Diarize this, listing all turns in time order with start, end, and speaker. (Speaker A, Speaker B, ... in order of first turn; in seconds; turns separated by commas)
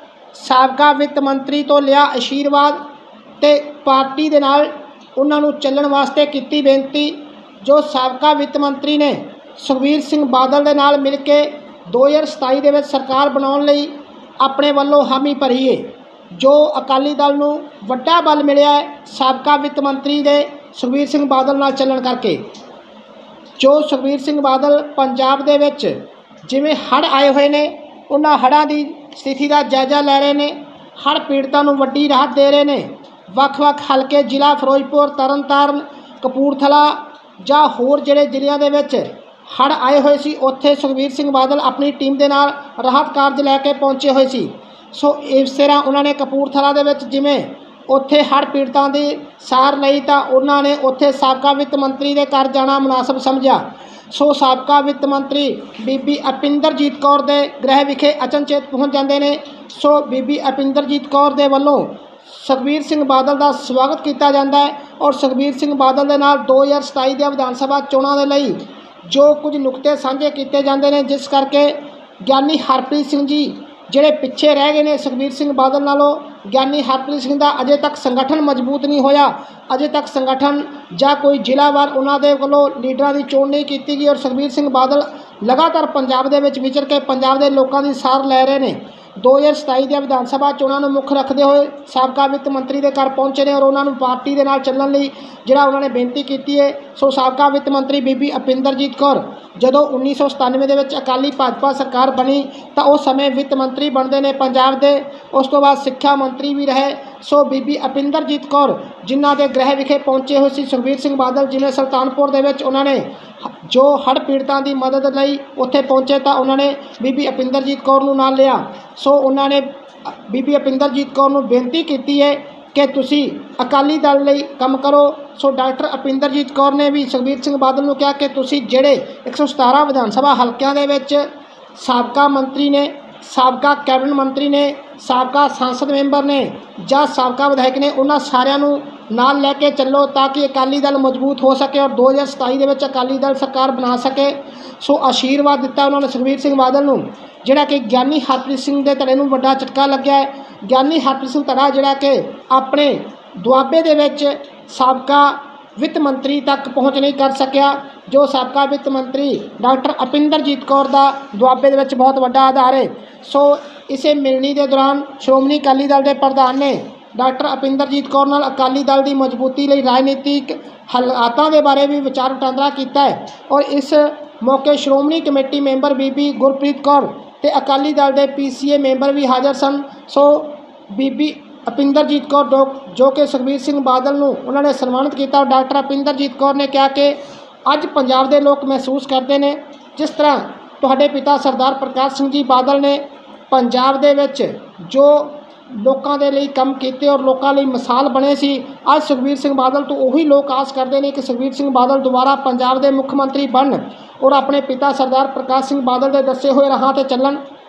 Speaker A: 0.3-2.8, Speaker A: 3.4-22.4, Speaker A: 23.6-113.1, Speaker A: 113.6-207.4